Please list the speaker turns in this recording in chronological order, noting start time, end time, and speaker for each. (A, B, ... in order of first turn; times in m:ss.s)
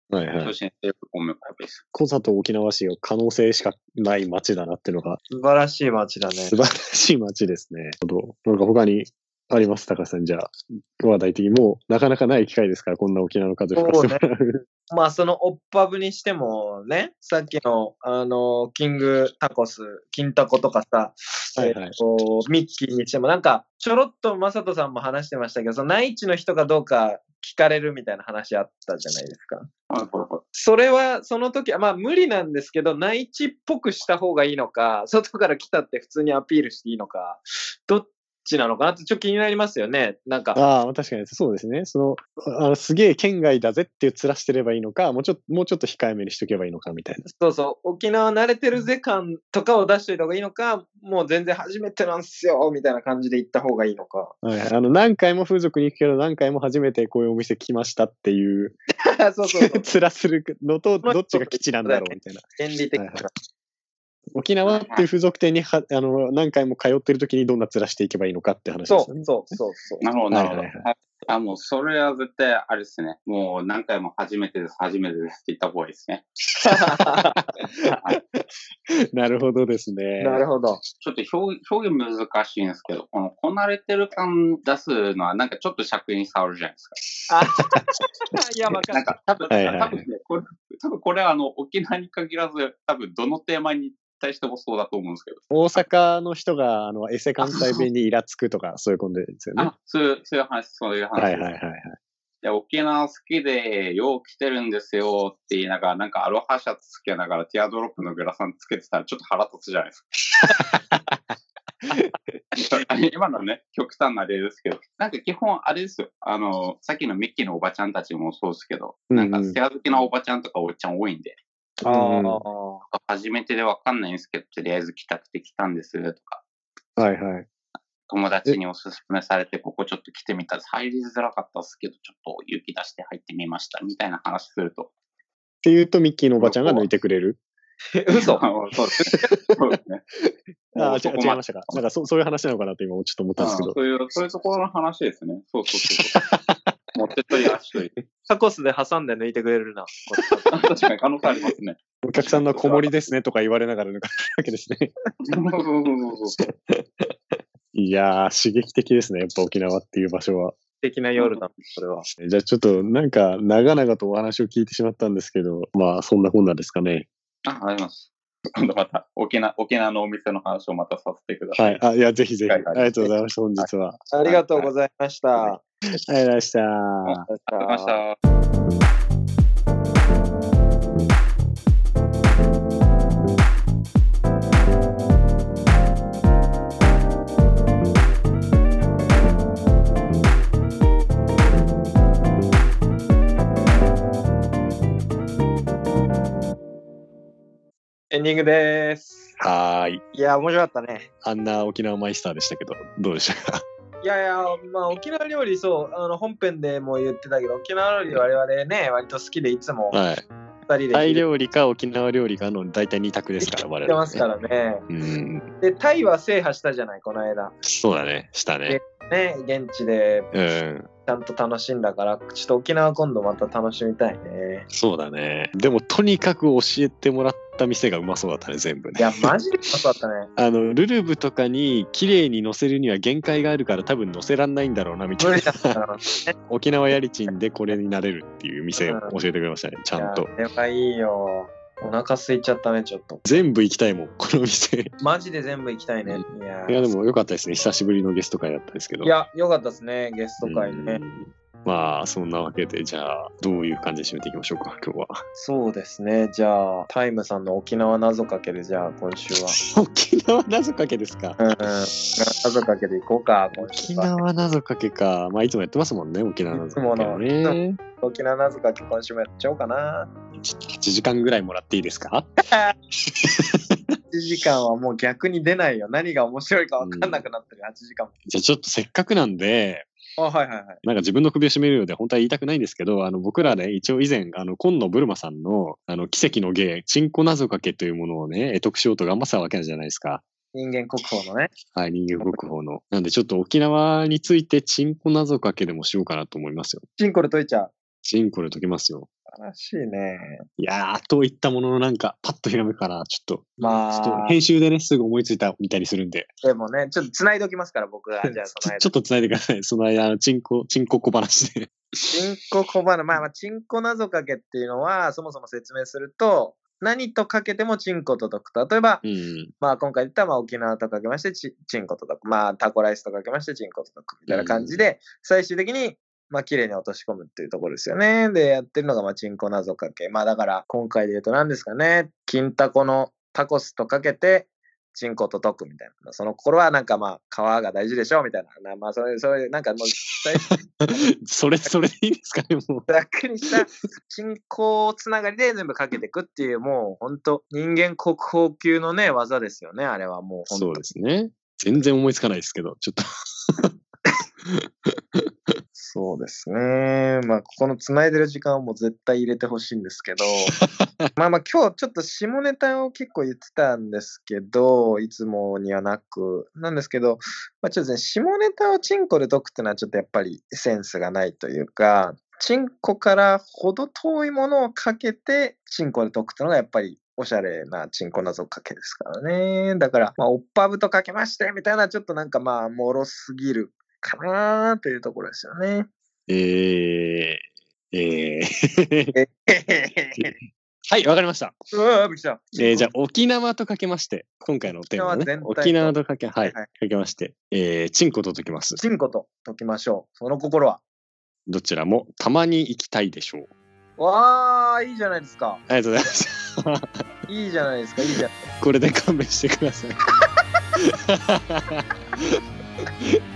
0:00.1-0:00.5 A
0:00.4-0:01.8 B
0:01.9-0:05.2 A
0:05.3-0:06.6 C
0:06.5-0:14.6 A
0:13.8-0:14.2 C
0:14.9-0:29.7 C
0:21.6-0:22.0 A
0:29.9-0:30.4 B
0:30.5-0:40.6 C
0:40.6-0:47.3 A
0:47.3-0:54.4 C
0:54.4-0:58.8 A
0:59.0-0:59.8 C
0:59.5-1:03.3 A
1:01.0-1:03.3 C
1:04.3-1:09.3 A
1:04.6-1:05.1 B
1:08.9-1:10.1 C
1:10.0-1:16.2 B
1:10.3-1:10.9 A
1:16.6-1:17.4 C
1:17.0-1:20.5 A
1:20.2-1:20.8 C
1:21.0-1:27.0 B
1:27.3-1:29.4 C
1:28.9-1:35.8 B
1:29.5-1:30.0 A
1:35.5-1:39.7 A
1:39.6-1:41.5 B
1:41.2-1:42.0 A
1:42.4-1:50.1 B
1:50.4-1:51.2 A
1:51.9-1:52.8 A
1:52.6-2:01.4 B
1:59.1-1:59.6 A
2:01.8-2:02.4 A
2:01.8-2:02.8 C
2:02.9-2:06.4 B
2:07.0-2:07.5 A
2:08.1-2:14.9 B
2:15.6-2:17.4 A
2:16.4-2:16.8 B
2:17.9-2:18.4 C
2:18.2-2:20.0 B
2:19.2-2:19.5 A
2:20.2-2:23.8 A
2:20.8-2:21.8 B
2:23.4-2:26.2 B
2:25.7-2:26.7 A
2:27.0-2:27.9 B
2:28.3-2:30.5 C
2:30.2-2:30.5 A
2:30.5-2:32.9 B
2:32.0-2:34.9 A
2:35.2-2:36.4 B
2:36.4-2:36.9 A
2:37.7-2:40.6 A
2:40.8-2:42.1 C
2:42.2-2:47.1 A
2:47.5-2:51.8 B
2:51.6-2:54.1 A
2:52.5-2:53.7 B
2:54.1-2:55.6 C
2:54.2-2:54.6 B
2:56.1-2:57.2 A
2:57.0-2:58.2 B
2:57.3-2:58.0 C
3:18.1-3:19.4 C
3:19.4-3:20.0 A
3:20.1-3:21.1 C
3:21.2-3:23.6 A
3:24.0-3:30.0 C
3:29.9-3:30.2 A
3:30.7-3:31.2 C
3:30.9-3:34.3 A
3:33.4-3:34.8 C
3:34.9-3:35.5 A
3:35.6-3:37.5 C
3:37.6-3:38.8 A
3:38.7-3:40.3 C
3:40.3-3:40.9 A
3:41.1-3:44.7 C
3:44.7-3:49.3 A
3:49.0-3:50.3 C
3:50.4-3:55.8 A
3:55.2-3:56.3 C
3:56.4-4:00.3 A
3:58.8-3:59.2 C
4:00.0-4:03.2 C
4:03.2-4:05.0 A
4:05.0-4:06.9 C
4:06.1-4:09.1 A
4:09.0-4:11.0 C
4:10.4-4:15.2 A
4:15.4-4:19.6 C
4:19.6-4:21.4 A
4:21.4-4:24.2 C
4:21.9-4:22.2 A
4:23.5-4:27.8 A
4:26.5-4:30.1 C
4:30.4-4:32.3 A
4:32.5-4:32.7 C
4:33.1-4:33.7 A
4:34.1-4:38.1 C
4:36.8-4:37.2 A
4:38.3-4:39.9 A
4:40.2-4:40.8 C
4:40.8-4:50.2 A
4:50.5-4:51.5 C
4:51.7-4:56.8 A
4:57.0-4:57.7 C
4:58.0-4:59.1 A
4:59.3-5:00.4 C
5:00.6-5:06.3 A
5:03.6-5:04.4 C
5:06.4-5:08.9 C
5:08.6-5:12.2 A
5:12.1-5:19.0 C
5:19.0-5:19.5 A
5:19.6-5:40.5 C
5:24.3-5:24.8 A
5:40.4-5:42.9 A
5:42.9-5:50.9 C
5:50.5-5:53.7 A
5:55.8-6:00.6 C
6:00.5-6:01.1 A
6:01.2-6:25.9 C
6:26.3-6:29.2 A
6:29.1-6:30.3 C
6:30.2-6:31.6 A
6:31.7-6:32.9 C
6:32.6-6:38.8 A
6:35.0-6:36.7 C
6:38.8-6:40.8 C
6:41.5-6:43.5 A
6:44.0-6:45.6 C
6:45.7-6:46.9 A
6:47.3-6:48.4 C
6:48.6-6:50.0 A
6:50.8-6:52.4 A